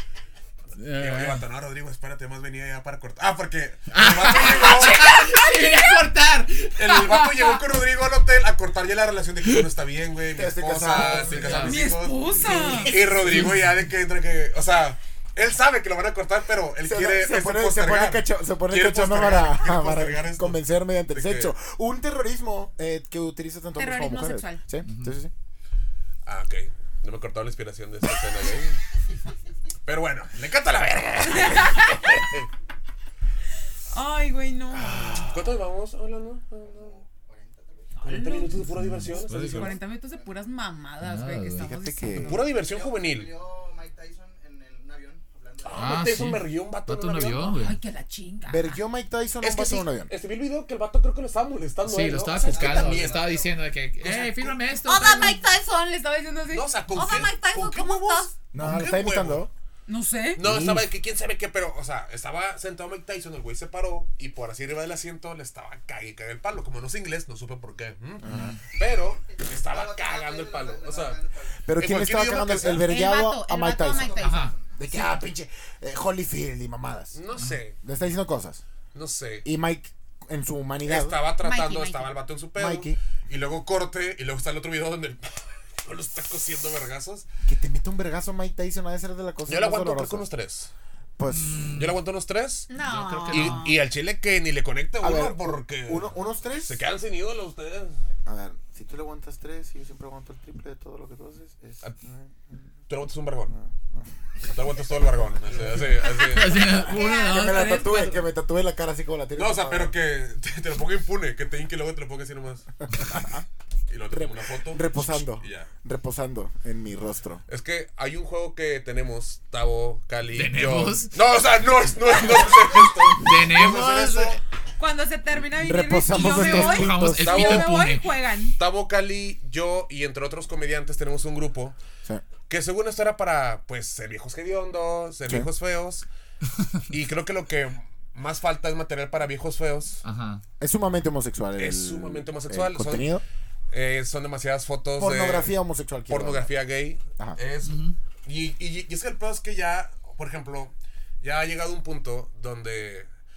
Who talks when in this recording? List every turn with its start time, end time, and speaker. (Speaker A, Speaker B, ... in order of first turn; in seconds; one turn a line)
Speaker A: 0.8-1.4
Speaker B: 0.9-5.1
Speaker A: 3.9-7.6
Speaker C: 5.3-5.9
Speaker B: 6.7-21.5
Speaker D: 10.3-11.7
Speaker A: 10.9-11.8
Speaker C: 11.6-13.0
Speaker D: 12.4-13.5
Speaker A: 12.4-13.7
Speaker D: 16.8-25.3
Speaker C: 23.8-24.6
Speaker A: 24.8-25.1
Speaker B: 26.2-28.8
Speaker B: 29.9-32.5
Speaker C: 31.2-32.1
Speaker C: 33.9-35.1
Speaker B: 34.7-37.0
Speaker E: 36.6-38.1
Speaker C: 38.0-38.6
Speaker B: 38.0-39.8
Speaker A: 38.7-39.7
Speaker E: 39.5-40.4
Speaker C: 39.5-42.4
Speaker A: 41.0-41.7
Speaker D: 41.5-42.4
Speaker B: 42.2-43.3
Speaker E: 42.5-46.2
Speaker B: 45.6-47.5
Speaker A: 45.7-47.8
Speaker C: 47.5-48.8
Speaker D: 48.5-50.1
Speaker B: 49.4-53.4
Speaker A: 51.8-55.4
Speaker E: 52.4-53.6
Speaker B: 54.0-54.6
Speaker C: 54.8-58.3
Speaker B: 56.5-59.4
Speaker D: 58.5-59.5
Speaker C: 59.9-60.4
Speaker B: 60.4-71.2
Speaker D: 60.4-60.8
Speaker D: 68.2-68.6
Speaker A: 68.2-68.6
Speaker E: 69.1-71.7
Speaker D: 71.6-74.2
Speaker B: 71.8-72.9
Speaker C: 72.8-75.2
Speaker E: 73.8-74.8
Speaker A: 74.2-74.5
Speaker D: 74.7-77.2
Speaker B: 77.1-77.8
Speaker D: 77.8-78.6
Speaker B: 78.9-79.5
Speaker D: 79.4-81.2
Speaker B: 80.8-87.2
Speaker C: 81.4-82.1
Speaker D: 82.5-83.0
Speaker D: 87.4-90.2
Speaker B: 89.5-90.7
Speaker D: 91.2-91.8
Speaker A: 91.3-92.0
Speaker B: 91.7-92.7
Speaker C: 92.7-93.8
Speaker A: 92.8-93.6
Speaker B: 93.3-98.0
Speaker D: 95.0-96.8
Speaker D: 98.2-102.7
Speaker B: 102.9-103.5
Speaker D: 103.5-104.0
Speaker B: 104.5-106.7
Speaker D: 105.8-109.9
Speaker A: 106.1-108.2
Speaker C: 106.7-107.8
Speaker B: 109.3-112.6
Speaker D: 112.9-113.5
Speaker B: 113.9-115.7
Speaker D: 114.1-117.4
Speaker B: 117.5-124.4
Speaker A: 120.3-121.1
Speaker A: 123.2-124.1
Speaker C: 124.8-128.6
Speaker D: 125.5-127.7
Speaker A: 126.1-128.2
Speaker B: 127.2-127.7
Speaker B: 128.6-131.8
Speaker B: 132.5-136.0
Speaker B: 136.9-140.0
Speaker A: 140.0-140.4
Speaker D: 140.6-143.2
Speaker B: 141.6-143.2
Speaker B: 143.7-145.5
Speaker D: 145.0-146.5
Speaker B: 146.1-153.1
Speaker A: 147.6-147.9